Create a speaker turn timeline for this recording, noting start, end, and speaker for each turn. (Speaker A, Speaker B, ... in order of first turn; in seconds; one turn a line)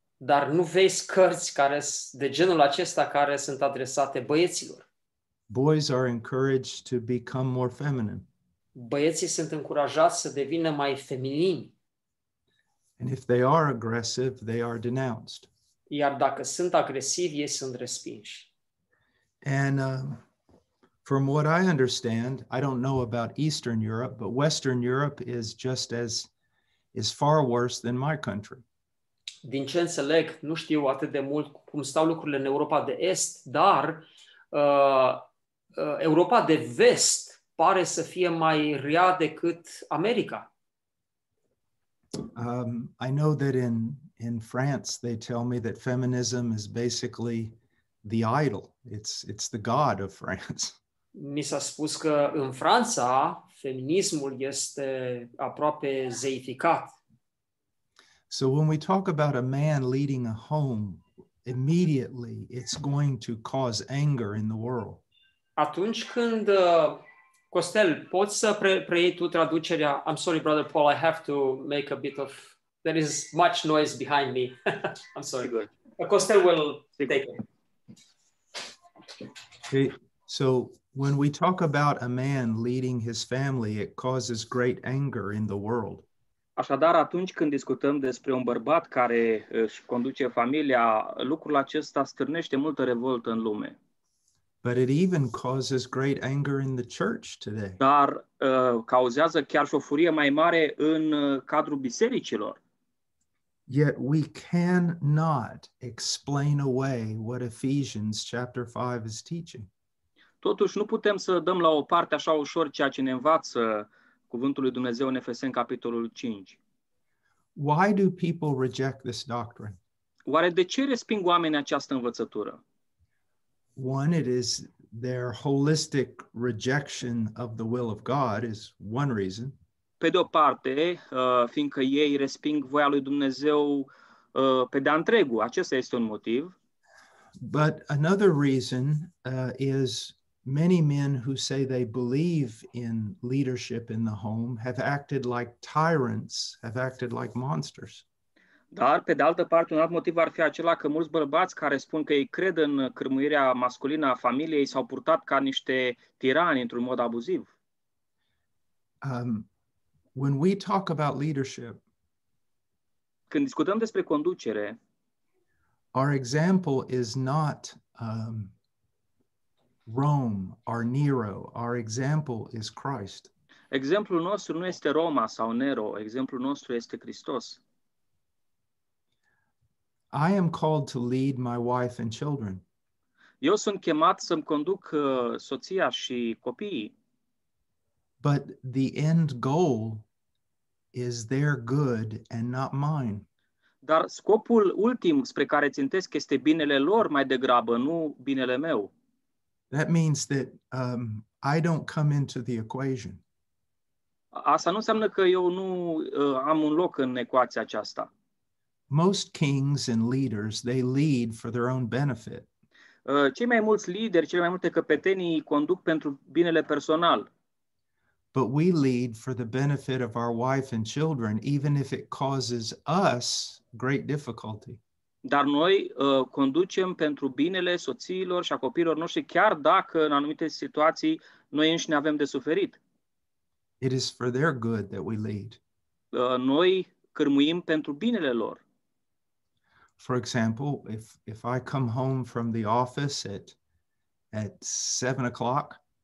Speaker A: 0.2-4.8
Speaker B: 5.5-8.2
Speaker A: 8.8-11.7
Speaker B: 13.0-15.5
Speaker A: 15.9-18.5
Speaker B: 19.4-20.2
Speaker B: 21.0-26.3
Speaker B: 26.9-28.6
Speaker A: 29.4-35.2
Speaker A: 35.8-40.5
Speaker B: 42.3-50.8
Speaker A: 51.1-57.0
Speaker B: 58.3-65.0
Speaker A: 65.6-77.4
Speaker C: 75.4-75.7
Speaker B: 79.7-86.0
Speaker C: 86.6-93.8
Speaker B: 94.6-97.8
Speaker C: 97.8-102.6
Speaker B: 103.7-109.7
Speaker C: 110.4-116.6
Speaker B: 117.5-119.8
Speaker C: 120.2-122.6
Speaker B: 123.8-129.6
Speaker C: 130.0-136.5
Speaker B: 137.4-148.0
Speaker C: 148.7-157.5
Speaker B: 159.0-159.5
Speaker B: 160.1-161.8
Speaker C: 163.3-164.8
Speaker B: 165.9-168.5
Speaker B: 169.8-173.3
Speaker C: 173.7-177.6
Speaker B: 180.1-182.6
Speaker C: 183.4-186.9
Speaker B: 188.2-190.1
Speaker B: 190.9-193.2
Speaker C: 193.8-198.9
Speaker B: 199.7-203.2
Speaker C: 204.3-208.1
Speaker B: 208.9-212.5
Speaker C: 213.1-217.3
Speaker B: 218.3-224.8
Speaker C: 225.2-232.8
Speaker B: 233.8-235.6
Speaker C: 236.1-238.6
Speaker B: 240.0-243.6
Speaker B: 244.3-245.8